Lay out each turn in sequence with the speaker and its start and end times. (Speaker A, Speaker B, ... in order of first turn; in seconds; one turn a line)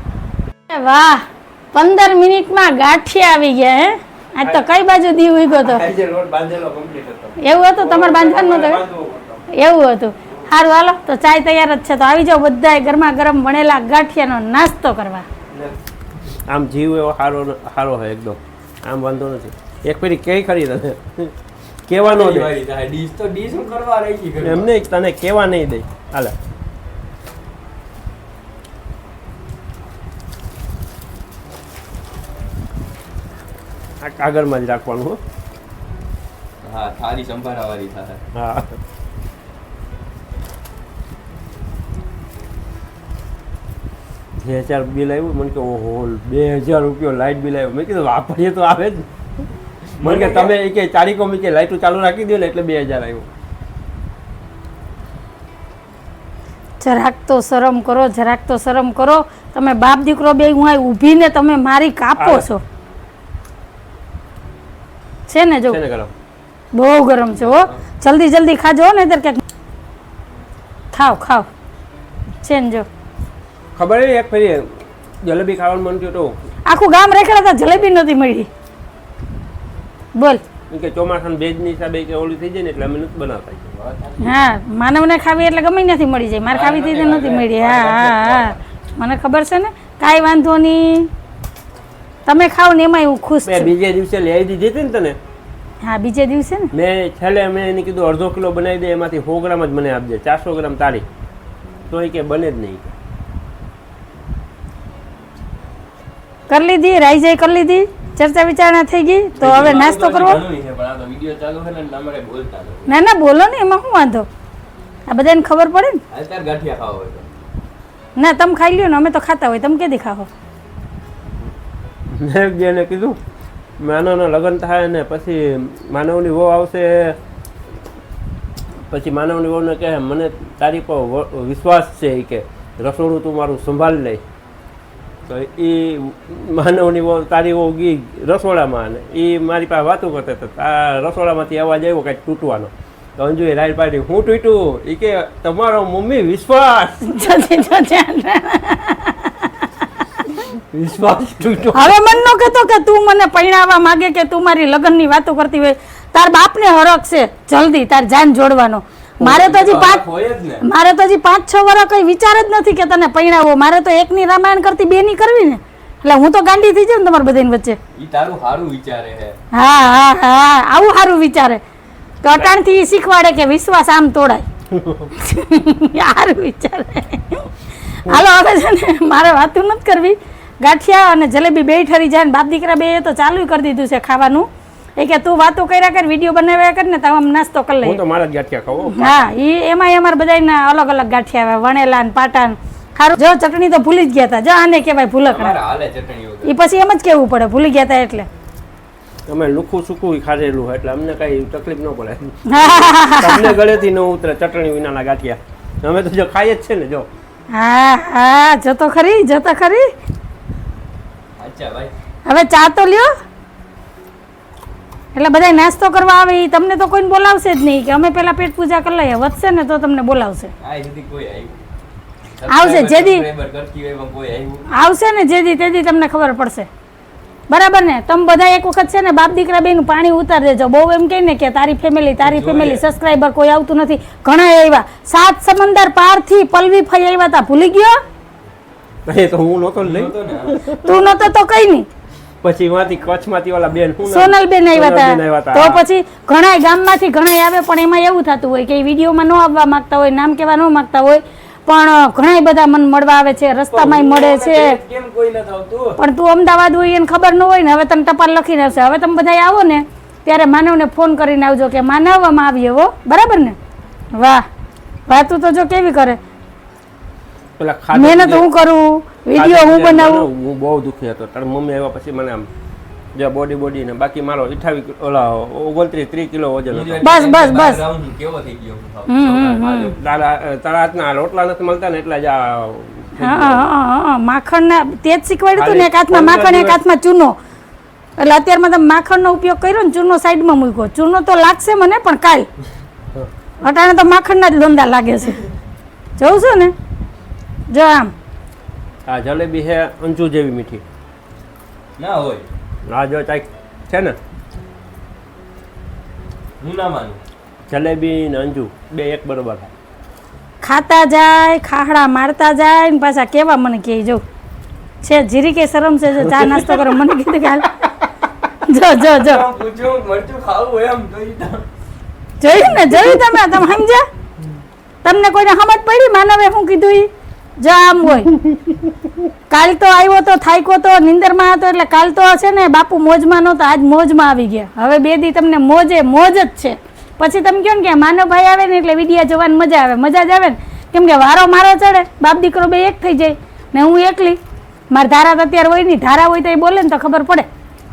Speaker A: 0.7-5.8
Speaker B: 4.4-4.7
Speaker B: 5.6-8.7
Speaker A: 7.4-8.8
Speaker C: 7.9-9.5
Speaker A: 9.5-15.3
Speaker B: 16.5-21.3
Speaker B: 21.9-22.5
Speaker C: 22.0-24.7
Speaker B: 24.4-26.4
Speaker B: 34.0-35.2
Speaker C: 36.6-38.2
Speaker B: 38.3-38.8
Speaker B: 44.4-49.1
Speaker C: 50.0-50.5
Speaker B: 50.0-53.3
Speaker A: 56.8-62.6
Speaker B: 62.2-62.5
Speaker A: 65.3-65.8
Speaker B: 65.7-66.1
Speaker A: 66.7-69.4
Speaker C: 67.4-67.8
Speaker A: 70.9-71.5
Speaker A: 72.4-72.9
Speaker B: 73.8-74.7
Speaker B: 75.2-76.3
Speaker A: 76.7-78.5
Speaker A: 80.2-80.4
Speaker B: 80.7-83.7
Speaker C: 83.7-84.5
Speaker A: 84.2-91.1
Speaker C: 86.5-88.6
Speaker A: 92.3-93.7
Speaker B: 93.5-95.2
Speaker A: 95.8-96.7
Speaker B: 96.7-101.0
Speaker B: 101.9-102.9
Speaker A: 106.5-110.4
Speaker C: 109.4-112.9
Speaker B: 109.5-109.8
Speaker A: 112.9-114.3
Speaker A: 115.1-116.0
Speaker C: 116.1-117.3
Speaker A: 118.2-120.3
Speaker B: 122.1-123.2
Speaker B: 123.8-127.2
Speaker B: 128.9-134.2
Speaker B: 135.3-147.2
Speaker A: 147.0-149.5
Speaker B: 150.7-152.1
Speaker A: 151.8-160.0
Speaker C: 159.2-160.6
Speaker A: 160.6-167.8
Speaker C: 167.9-169.4
Speaker A: 169.5-171.6
Speaker A: 172.2-174.5
Speaker B: 174.7-175.1
Speaker A: 175.2-188.0
Speaker B: 187.8-189.3
Speaker A: 188.9-195.6
Speaker C: 195.2-196.6
Speaker A: 196.4-198.3
Speaker B: 199.3-207.1
Speaker A: 202.5-203.6
Speaker A: 207.5-209.9
Speaker C: 211.4-211.9
Speaker A: 212.3-213.1
Speaker A: 215.2-220.5
Speaker C: 220.6-221.6
Speaker C: 222.3-224.7
Speaker A: 222.5-223.2
Speaker A: 224.7-226.7
Speaker A: 227.5-238.0
Speaker C: 232.2-232.8
Speaker B: 239.1-240.9
Speaker C: 239.8-240.6
Speaker A: 240.8-241.9
Speaker B: 242.4-245.8
Speaker A: 244.1-254.8
Speaker C: 253.7-256.0
Speaker A: 256.0-263.6
Speaker A: 264.1-264.5
Speaker A: 265.1-266.2
Speaker B: 267.6-268.5
Speaker A: 267.9-270.3
Speaker B: 269.4-272.5
Speaker B: 273.1-277.1
Speaker C: 276.7-279.9
Speaker A: 277.0-277.8
Speaker A: 279.1-279.9
Speaker B: 279.8-283.7
Speaker A: 283.2-287.4
Speaker B: 285.6-286.8
Speaker A: 288.2-292.5
Speaker A: 293.6-295.4
Speaker A: 296.2-296.7
Speaker A: 297.7-298.1
Speaker B: 299.1-300.8
Speaker C: 302.0-302.5
Speaker B: 302.9-304.2
Speaker C: 306.6-307.2
Speaker B: 307.7-309.7
Speaker A: 310.6-314.2
Speaker A: 315.0-317.8
Speaker B: 316.3-316.9
Speaker A: 318.7-319.4
Speaker C: 319.0-321.6
Speaker A: 322.4-324.0
Speaker B: 322.6-323.3
Speaker A: 325.0-328.3
Speaker B: 328.3-329.3
Speaker A: 329.5-344.4
Speaker A: 344.9-347.5